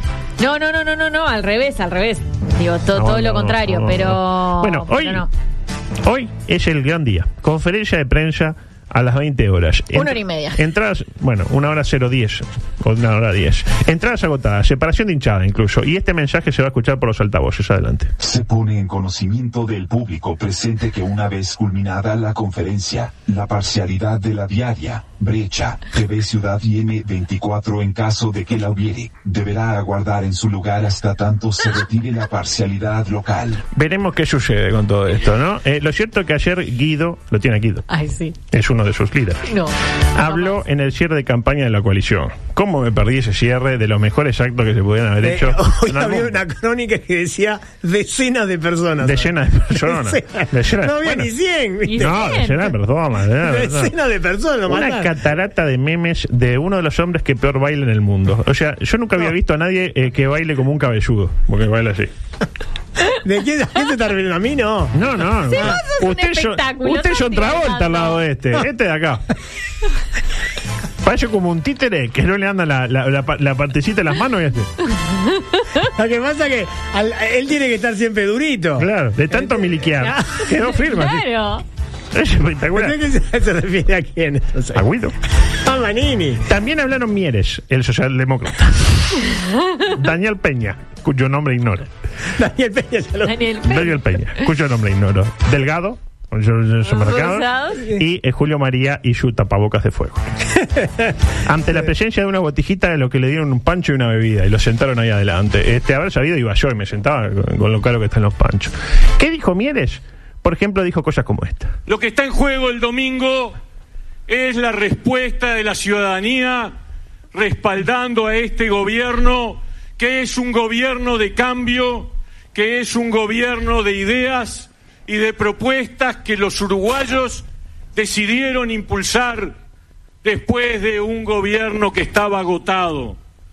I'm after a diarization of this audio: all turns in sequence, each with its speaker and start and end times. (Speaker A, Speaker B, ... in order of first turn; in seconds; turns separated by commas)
Speaker A: 0.4-5.3, Speaker B: 2.9-5.2, Speaker B: 6.0-18.1, Speaker A: 9.9-10.6, Speaker C: 18.2-33.6, Speaker B: 33.7-37.8, Speaker A: 37.9-38.3, Speaker B: 38.5-39.5, Speaker A: 39.5-40.6, Speaker B: 40.1-46.4, Speaker D: 45.2-52.3, Speaker B: 49.0-51.3, Speaker A: 51.9-52.7, Speaker B: 52.0-53.9, Speaker D: 53.4-55.1, Speaker B: 54.7-62.1, Speaker D: 63.1-65.0, Speaker B: 64.9-69.2, Speaker A: 65.5-68.2, Speaker B: 71.0-74.7, Speaker A: 75.0-75.8, Speaker D: 75.8-80.4, Speaker B: 78.8-81.3, Speaker A: 80.7-81.6, Speaker B: 82.1-83.0, Speaker D: 82.7-84.8, Speaker B: 84.7-85.1, Speaker D: 85.5-86.4, Speaker B: 86.5-91.9, Speaker A: 89.3-89.7, Speaker D: 92.3-93.4, Speaker A: 93.2-94.0, Speaker B: 93.6-100.2, Speaker A: 96.9-97.8, Speaker D: 100.5-101.2, Speaker B: 101.5-111.8, Speaker E: 111.9-113.5, Speaker E: 114.3-116.7, Speaker E: 117.3-129.5, Speaker E: 130.2-133.2